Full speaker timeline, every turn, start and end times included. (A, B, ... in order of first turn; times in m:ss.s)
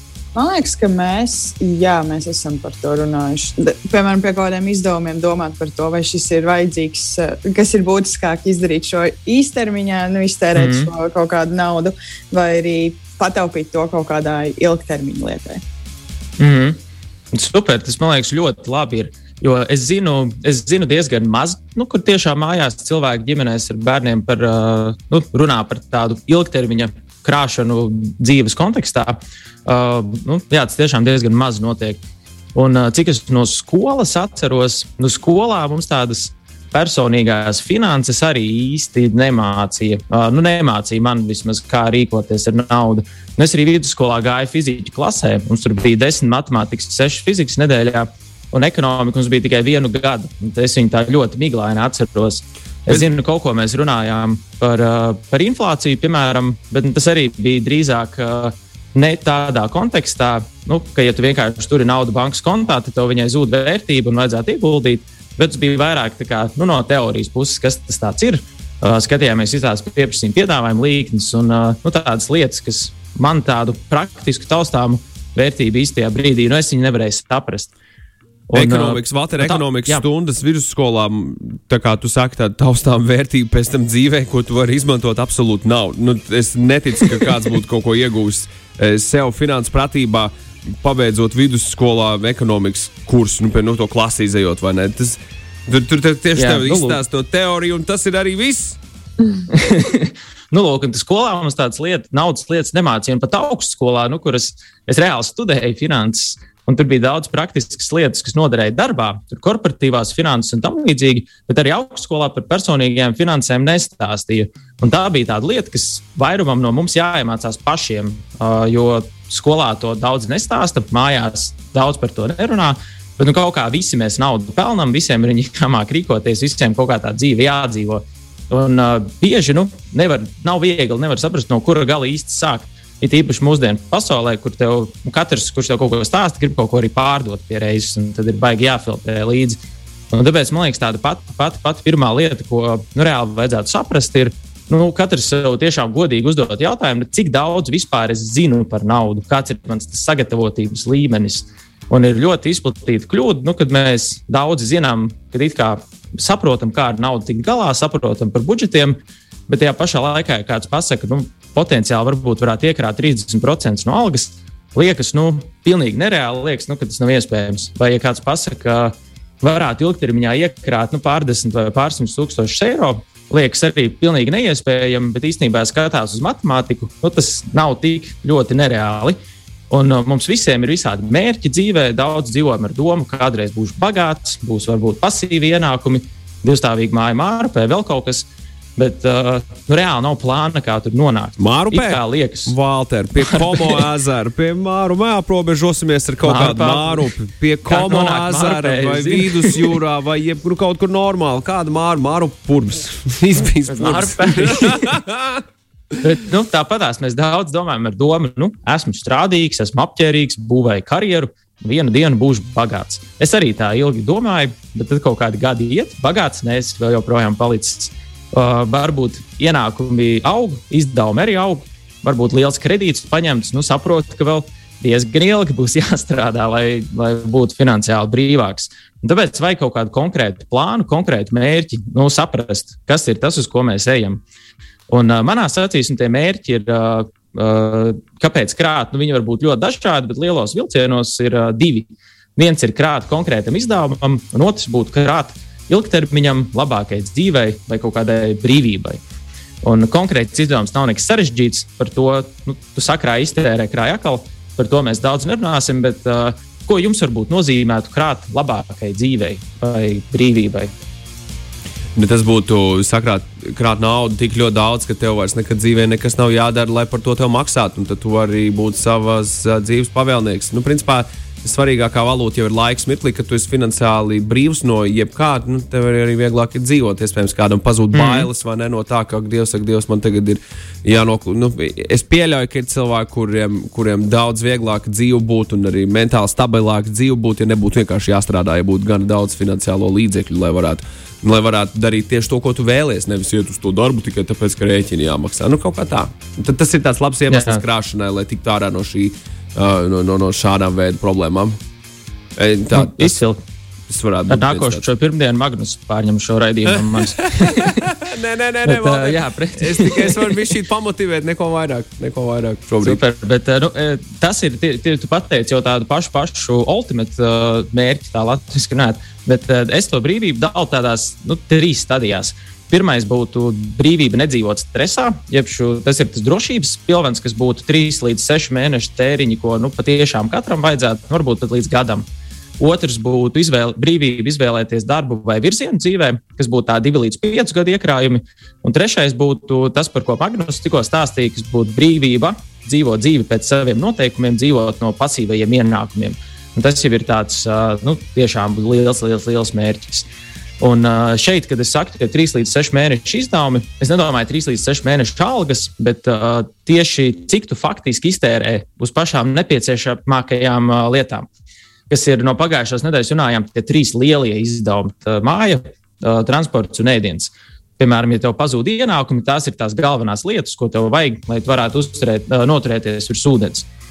0:00.3-0:15.6 A
0:10.6-0:10.9 B
0:16.4-0:16.8 B
0:17.3-0:32.0 B
0:32.5-1:17.7 B
1:18.5-1:20.0 B
1:18.5-1:38.8 C
1:36.4-1:37.0 B
1:39.5-2:19.6 B
2:20.1-2:39.0 B
2:39.5-2:59.2 B
2:59.7-3:12.5 B
3:11.4-3:25.4 C
3:13.2-3:13.8 B
3:16.2-3:17.1 B
3:17.6-3:19.7 B
3:23.7-3:24.8 B
3:26.0-3:54.2 B
3:54.9-4:09.0 B
4:09.6-4:20.7 B
4:22.0-5:01.6 C
4:37.9-4:38.3 B
4:57.3-4:57.6 B
5:02.4-5:03.1 C
5:02.7-5:03.4 B
5:03.9-5:04.8 C
5:04.3-5:07.9 B
5:06.9-5:13.0 C
5:08.6-5:10.5 B
5:12.8-5:32.0 B
5:32.6-5:50.1 B
5:50.6-6:01.3 B
6:01.9-6:13.7 B